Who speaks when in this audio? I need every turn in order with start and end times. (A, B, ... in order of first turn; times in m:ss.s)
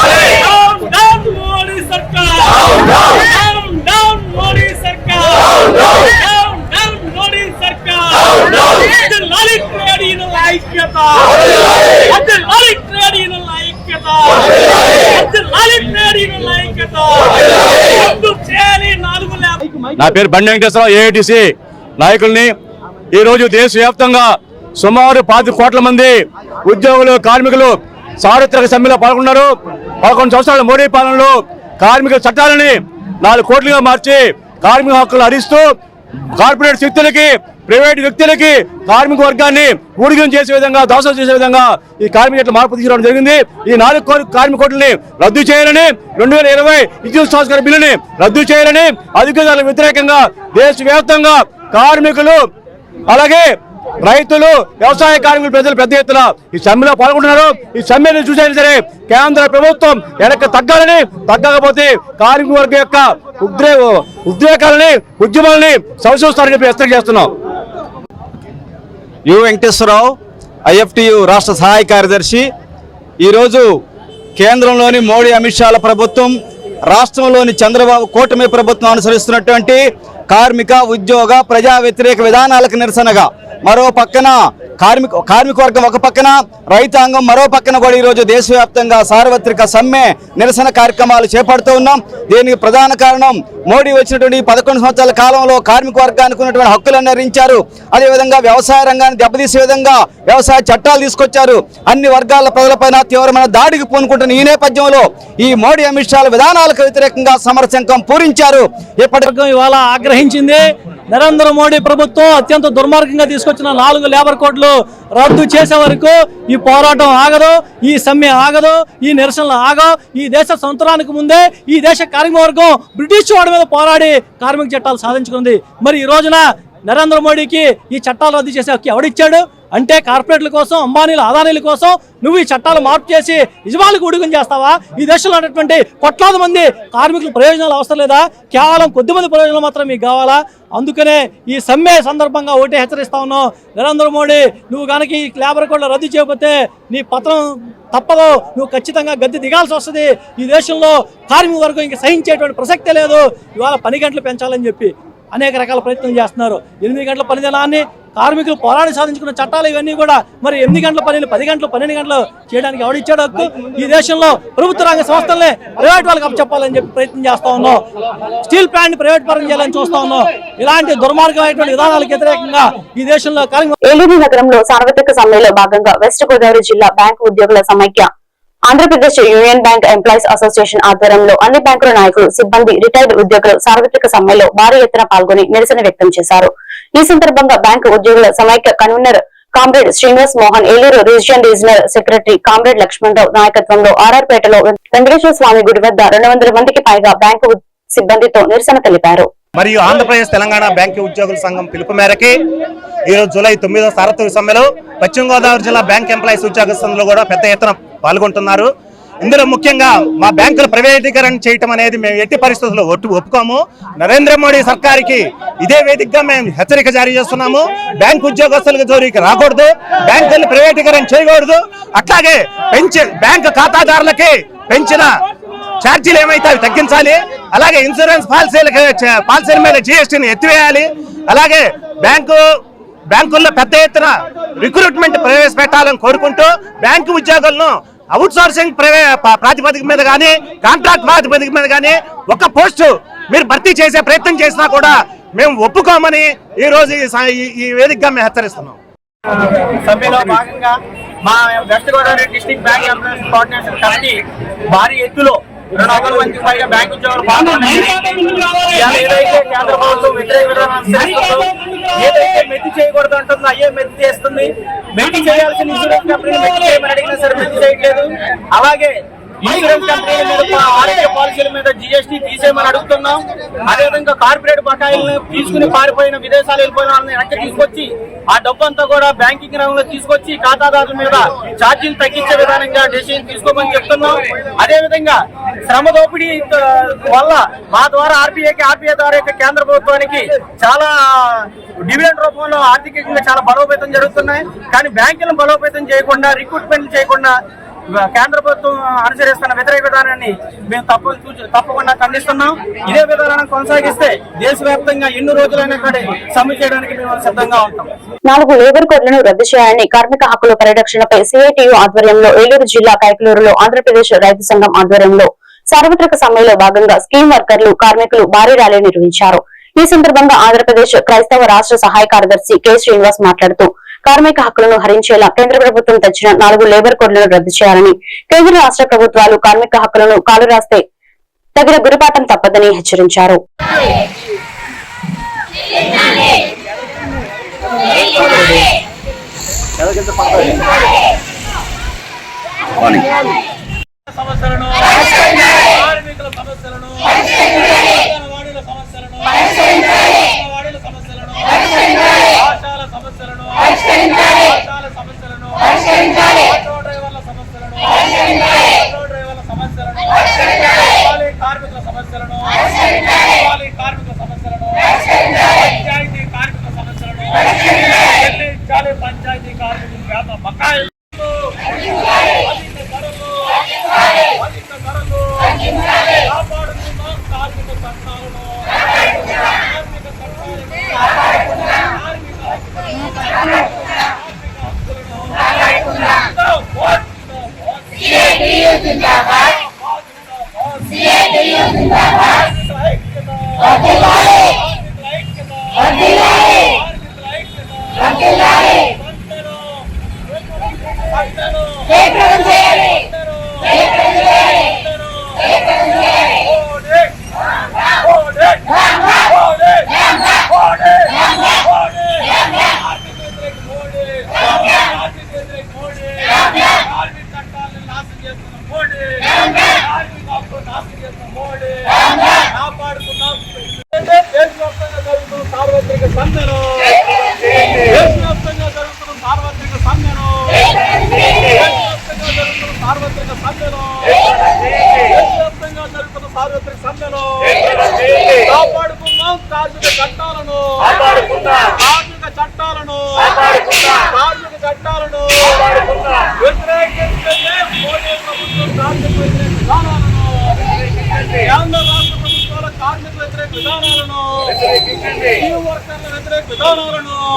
0:00.4-0:02.4 A
0:03.2-0:05.4 A
0:06.0-0:11.3 A
0:12.1-0:14.4 A
0:15.1-0:17.3 A
0:18.0-0:20.1 A
0:20.0-0:22.5 B
0:23.1-0:35.7 B
0:36.4-0:52.5 B
0:53.1-1:07.3 B
1:09.3-1:10.1 C
1:10.7-1:12.5 C
1:13.2-1:13.6 C
1:14.4-1:16.3 C
1:16.9-1:49.3 C
1:49.2-2:47.8 A
2:48.4-2:53.8 A
2:53.8-2:58.1 D
2:58.7-3:19.3 D
3:19.5-3:22.4 E
3:23.1-3:28.7 E
3:29.2-3:45.1 E
3:45.8-3:52.5 E
3:53.1-4:08.8 E
4:09.6-4:10.7 F
4:11.2-4:14.2 F
4:14.7-4:21.5 F
4:22.0-4:28.9 F
4:29.4-4:57.3 F
4:58.0-5:07.9 F
5:08.3-5:30.8 D
5:31.6-5:33.4 D
5:46.0-5:46.8 G
5:48.2-5:48.5 A
5:50.6-5:51.0 G
5:52.6-5:53.6 G
5:54.7-5:55.7 G
5:56.7-5:58.0 G
5:59.0-6:00.1 G
6:01.2-6:02.6 G
6:03.6-6:04.3 G
6:05.8-6:07.4 G
6:08.4-6:10.7 G
6:10.1-6:10.4 A
6:12.6-6:13.2 A
6:14.4-6:15.0 A
6:16.3-6:18.4 A
6:19.7-6:20.7 A
6:22.0-6:22.3 A
6:24.6-6:25.2 A
6:26.8-6:27.6 A
6:29.8-6:31.6 A
6:32.3-6:33.9 A
6:34.4-6:35.8 A
6:36.5-6:39.6 A
6:40.6-6:43.6 A
6:46.5-6:46.9 A
6:48.2-6:48.6 A
6:53.4-6:53.8 A
6:53.5-6:54.4 G
6:55.2-6:56.1 G
6:57.4-6:59.3 G
7:02.8-7:03.1 G
7:04.3-7:06.6 G
7:07.9-7:08.5 A
7:12.0-7:12.6 A
7:12.2-7:13.5 G
7:15.5-7:17.3 G
7:18.6-7:20.7 G
7:21.9-7:30.2 G
7:22.2-7:22.6 A
7:28.4-7:29.0 A
7:31.7-7:34.4 G
7:31.8-7:32.6 A